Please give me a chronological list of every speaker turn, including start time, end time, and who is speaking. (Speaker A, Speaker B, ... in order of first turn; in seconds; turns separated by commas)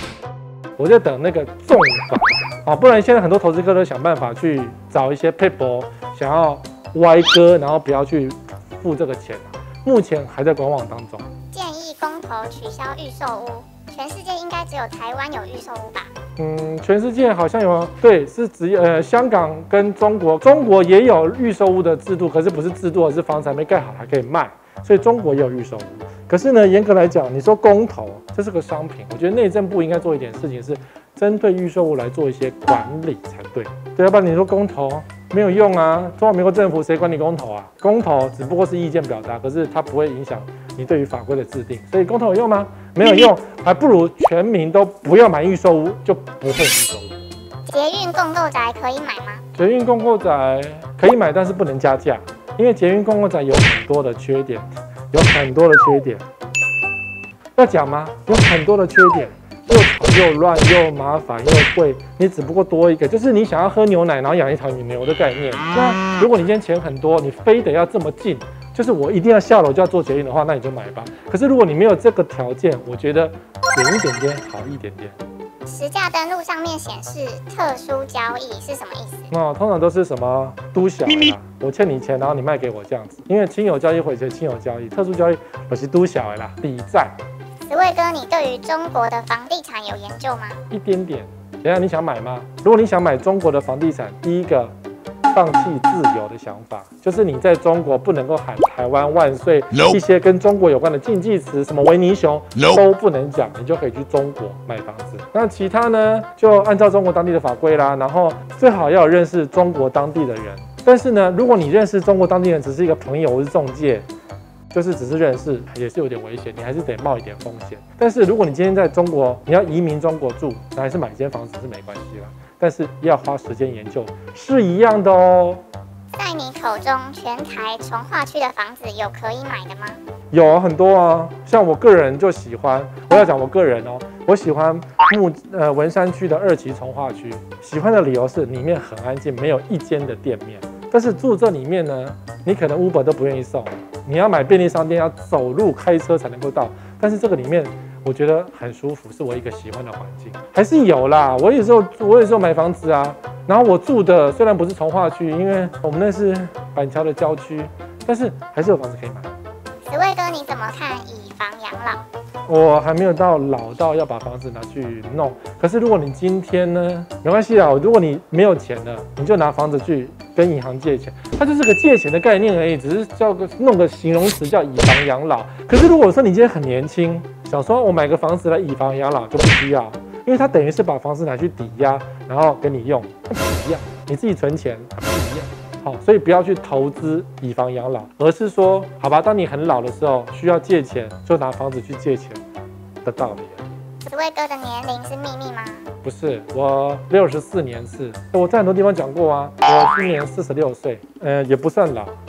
Speaker A: 0.8-11.3, Speaker B: 11.5-16.1, Speaker A: 16.4-47.3, Speaker B: 47.7-49.4, Speaker A: 49.5-56.2, Speaker A: 57.5-75.2, Speaker B: 75.7-79.3, Speaker A: 79.3-87.1, Speaker B: 87.7-90.6, Speaker A: 90.7-94.7, Speaker A: 95.3-114.1, Speaker A: 114.7-125.6, Speaker B: 126.2-130.0, Speaker A: 130.3-159.3, Speaker B: 159.9-162.0, Speaker A: 162.5-192.4, Speaker A: 193.0-193.7, Speaker B: 194.0-195.9, Speaker A: 196.0-202.2